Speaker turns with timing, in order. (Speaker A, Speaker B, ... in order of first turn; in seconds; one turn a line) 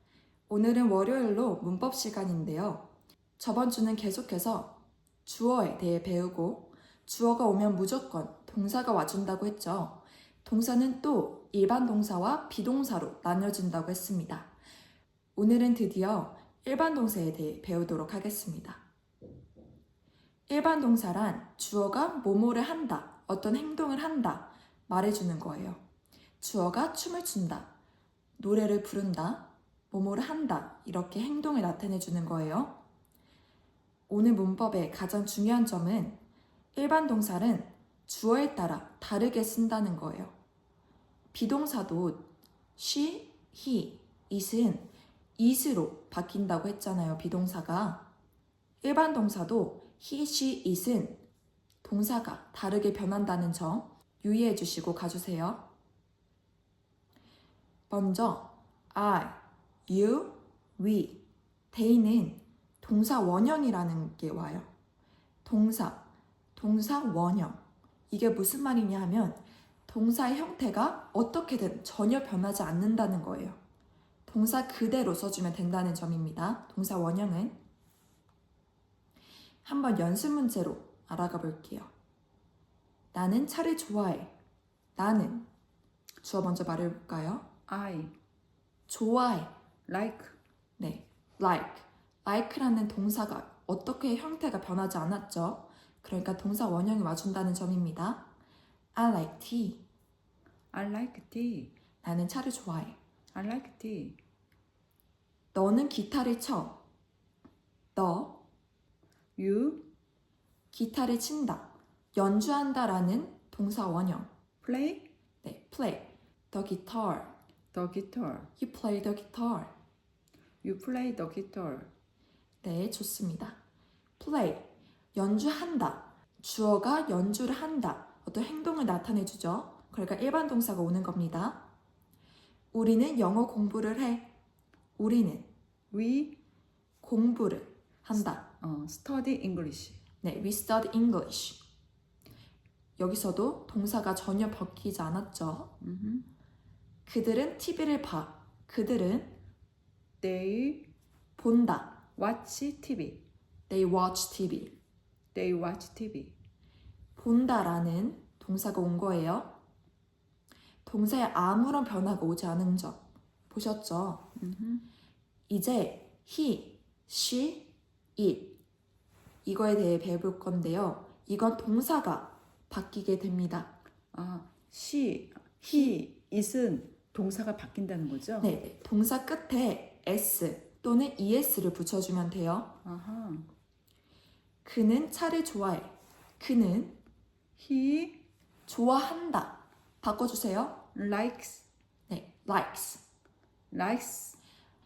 Speaker A: 0.5-14.5
Speaker A: 15.3-18.8
Speaker A: 20.5-25.8
Speaker A: 26.4-27.7
Speaker A: 28.4-32.8
Speaker A: 34.1-36.2
Speaker A: 36.7-40.3
Speaker A: 41.3-48.0
Speaker A: 48.8-51.2
Speaker A: 51.8-55.7
Speaker A: 57.9-64.7
Speaker A: 65.4-73.6
Speaker A: 74.3-77.6
Speaker A: 79.6-81.9
Speaker A: 83.1-84.3
Speaker A: 85.0-85.5
Speaker A: 86.2-87.5
Speaker B: 87.7-88.1
Speaker A: 88.9-89.5
Speaker B: 89.9-90.4
Speaker A: 90.8-98.3
Speaker A: 98.9-99.8
Speaker B: 100.7-101.7
Speaker A: 102.0-103.0
Speaker B: 103.3-104.2
Speaker A: 105.5-106.8
Speaker A: 107.9-108.4
Speaker B: 109.4-109.9
Speaker A: 110.7-114.3
Speaker B: 114.6-115.1
Speaker A: 115.4-117.3
Speaker B: 117.7-118.5
Speaker A: 118.6-119.7
Speaker B: 120.6-121.9
Speaker A: 122.6-123.6
Speaker A: 124.2-131.7
Speaker A: 132.7-134.3
Speaker A: 135.0-135.5
Speaker B: 135.9-136.4
Speaker A: 137.0-138.5
Speaker B: 138.6-140.0
Speaker A: 140.2-141.6
Speaker A: 143.0-145.8
Speaker B: 145.8-146.3
Speaker A: 147.1-149.4
Speaker B: 150.2-150.9
Speaker A: 151.4-152.0
Speaker B: 152.2-153.2
Speaker A: 153.7-154.7
Speaker B: 155.3-156.3
Speaker A: 157.2-159.6
Speaker A: 160.8-164.3
Speaker B: 164.4-164.9
Speaker A: 165.5-168.6
Speaker A: 169.4-173.7
Speaker B: 174.1-178.5
Speaker A: 178.4-182.8
Speaker B: 182.8-183.5
Speaker A: 184.6-187.0
Speaker B: 187.6-188.2
Speaker A: 188.7-190.8
Speaker B: 190.9-191.7
Speaker A: 192.1-193.0
Speaker B: 193.7-194.4